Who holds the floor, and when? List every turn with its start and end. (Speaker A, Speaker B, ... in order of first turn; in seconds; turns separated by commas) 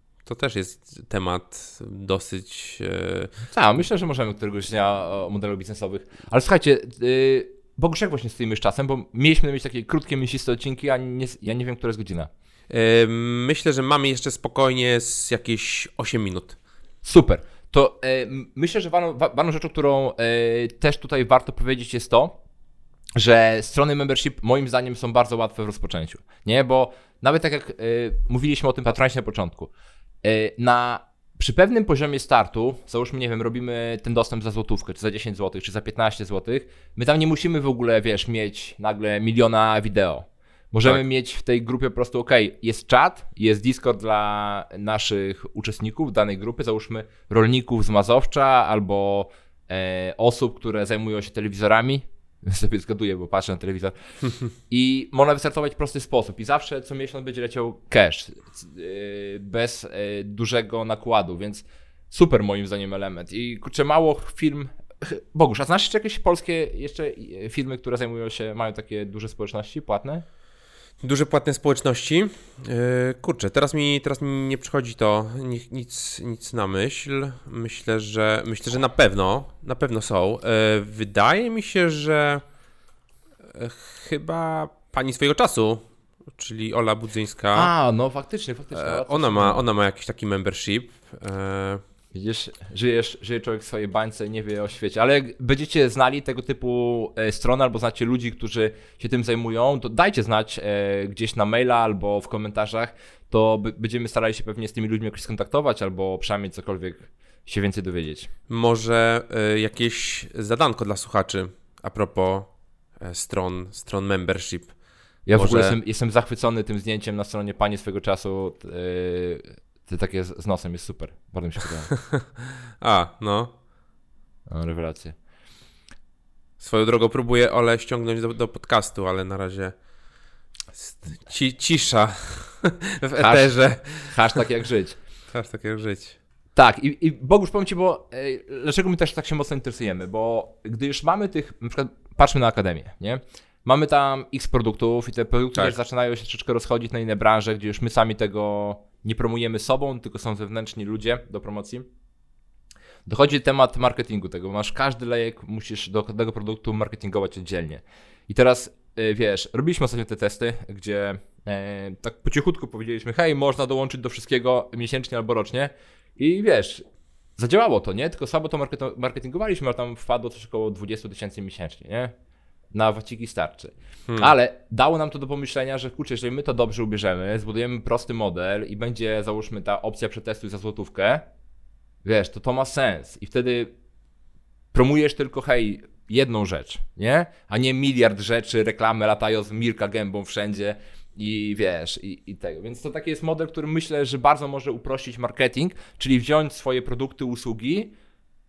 Speaker A: 0.2-3.3, Speaker B: 3.5-12.3, Speaker A: 12.7-16.6, Speaker B: 17.0-22.4, Speaker B: 23.1-29.7, Speaker B: 30.2-53.9, Speaker B: 54.7-70.2, Speaker A: 71.0-82.4, Speaker A: 83.5-87.7, Speaker B: 87.5-89.6, Speaker A: 88.7-91.8, Speaker B: 92.1-108.3, Speaker A: 108.5-114.7, Speaker B: 115.2-121.9, Speaker A: 115.3-115.8, Speaker A: 122.8-123.5, Speaker B: 124.5-125.1, Speaker A: 126.6-129.7, Speaker A: 130.8-134.4, Speaker B: 133.2-135.0, Speaker A: 135.3-136.2, Speaker B: 136.5-151.9, Speaker B: 153.1-166.8, Speaker B: 167.4-172.1, Speaker B: 172.7-181.3, Speaker B: 182.0-183.7, Speaker B: 184.7-197.9